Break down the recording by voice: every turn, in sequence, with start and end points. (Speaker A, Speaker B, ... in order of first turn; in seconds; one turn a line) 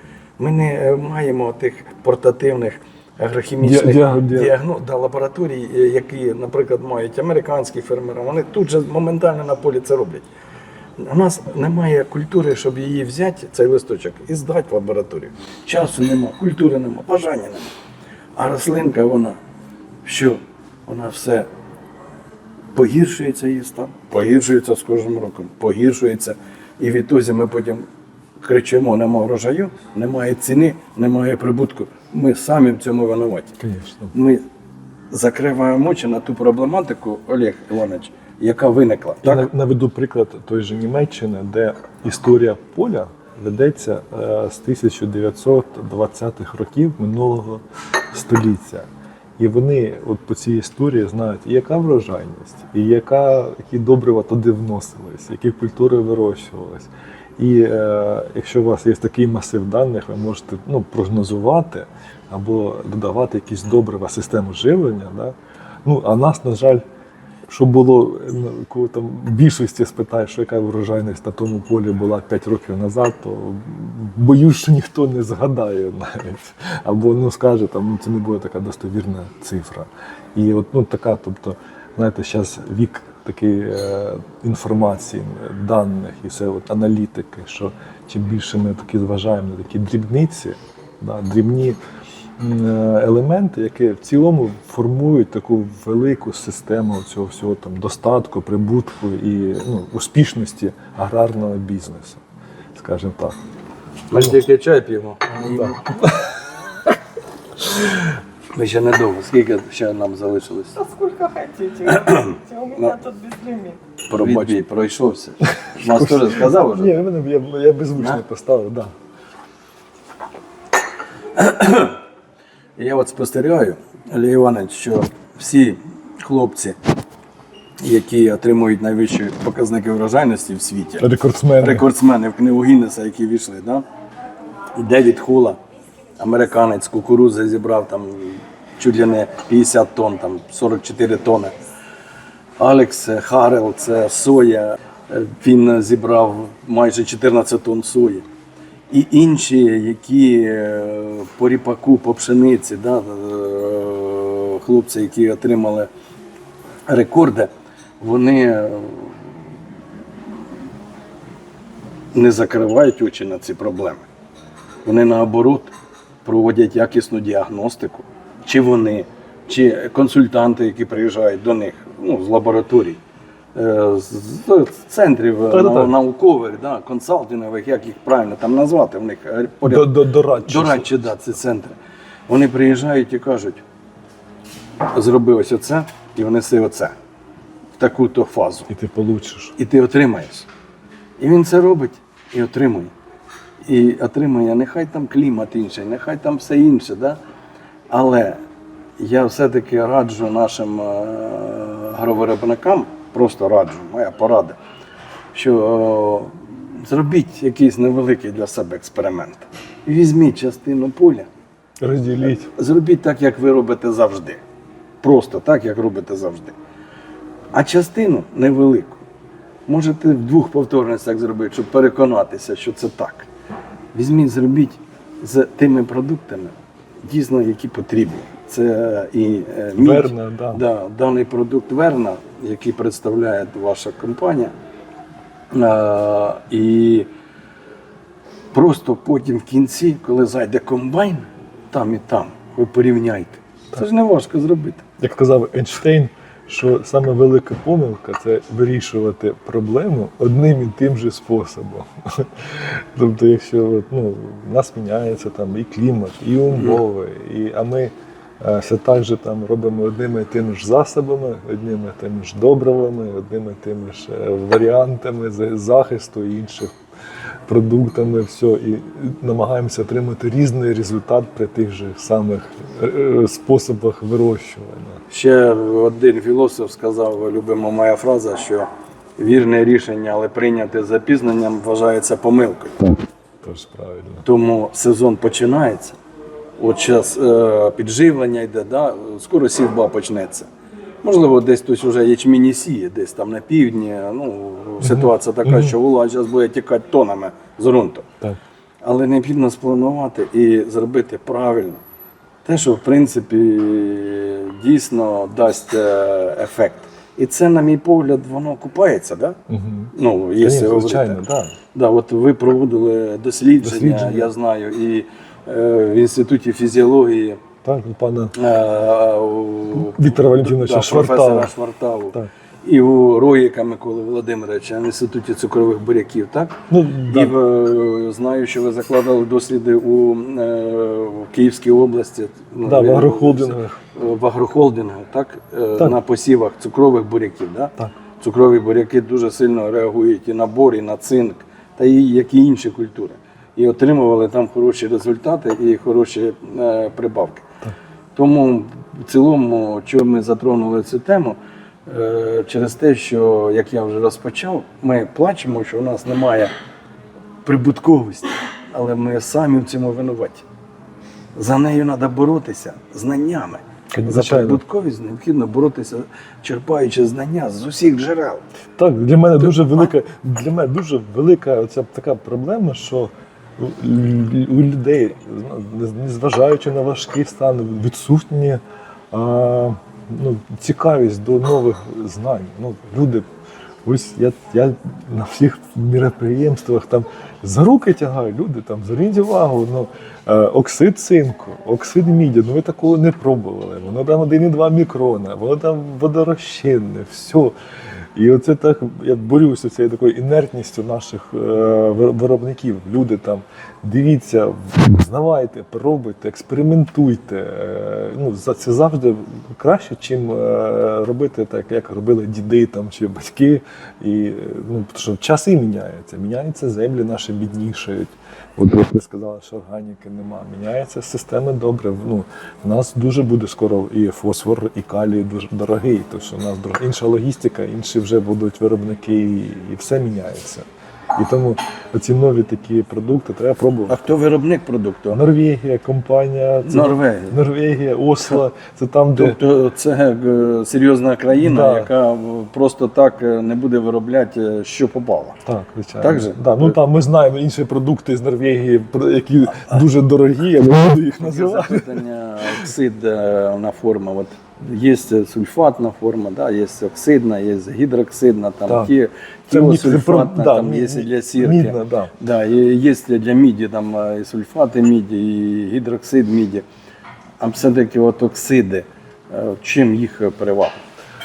Speaker A: 0.4-10.3
Speaker B: 3.6-4.5
Speaker A: 11.0-17.7
Speaker A: 18.4-19.4
Speaker A: 20.1-21.5
Speaker A: 22.7-27.9
Speaker A: 28.4-33.5
Speaker B: 33.6-34.1
Speaker A: 34.1-34.4
Speaker A: 35.1-39.5
Speaker B: 39.2-66.8
Speaker B: 67.5-91.8
Speaker B: 92.4-102.2
Speaker B: 102.8-103.4
Speaker A: 104.1-105.8
Speaker B: 105.5-106.3
Speaker A: 108.5-110.8
Speaker C: 110.8-113.8
Speaker A: 111.9-112.9
Speaker A: 114.1-117.0
Speaker B: 114.2-114.5
Speaker B: 115.7-118.9
Speaker A: 121.3-122.0
Speaker A: 122.8-126.8
Speaker A: 127.8-131.1
Speaker B: 131.0-131.8
Speaker A: 131.6-133.8
Speaker A: 134.8-135.6
Speaker A: 136.2-141.5
Speaker A: 142.6-148.2
Speaker A: 148.9-155.9
Speaker A: 156.9-159.2
Speaker A: 162.1-164.1
Speaker A: 164.8-165.7
Speaker A: 166.2-173.0
Speaker A: 173.6-181.8
Speaker B: 175.5-175.9
Speaker B: 179.6-181.1
Speaker A: 182.3-183.6
Speaker A: 184.9-186.9
Speaker A: 187.8-188.7
Speaker B: 188.7-189.6
Speaker A: 189.6-190.5
Speaker A: 191.2-192.9
Speaker A: 193.7-197.2
Speaker A: 197.9-198.4
Speaker A: 199.0-204.6
Speaker A: 205.3-211.3
Speaker B: 211.8-212.5
Speaker A: 212.4-214.4
Speaker A: 215.0-216.6
Speaker A: 217.5-219.0
Speaker A: 219.7-223.3
Speaker A: 223.9-226.5
Speaker A: 227.0-234.5
Speaker B: 229.8-230.6
Speaker A: 235.5-237.1
Speaker A: 238.5-244.8
Speaker B: 245.0-266.7
Speaker A: 256.5-256.8
Speaker B: 267.5-275.0
Speaker A: 275.1-282.8
Speaker B: 282.8-284.2
Speaker A: 284.2-286.0
Speaker A: 286.6-290.5
Speaker A: 291.0-298.1
Speaker B: 294.8-295.8
Speaker A: 298.8-301.8
Speaker A: 302.4-309.4
Speaker B: 309.5-311.6
Speaker A: 309.9-311.2
Speaker A: 311.7-317.4
Speaker B: 313.6-314.3
Speaker B: 317.6-318.3
Speaker A: 318.3-347.5
Speaker B: 319.8-321.5
Speaker B: 326.7-327.4
Speaker B: 332.6-333.8
Speaker A: 348.1-356.5
Speaker A: 357.4-360.4
Speaker A: 361.4-368.4
Speaker B: 363.9-364.6
Speaker B: 368.8-378.6
Speaker B: 379.1-383.2
Speaker B: 383.9-397.5
Speaker B: 398.1-434.0
Speaker A: 433.9-435.2
Speaker B: 435.1-439.4
Speaker A: 436.6-437.4
Speaker A: 439.2-445.4
Speaker B: 441.4-441.9
Speaker B: 445.4-452.0
Speaker A: 446.0-446.8
Speaker A: 451.2-466.6
Speaker B: 458.7-458.9
Speaker B: 459.5-462.1
Speaker A: 467.4-470.8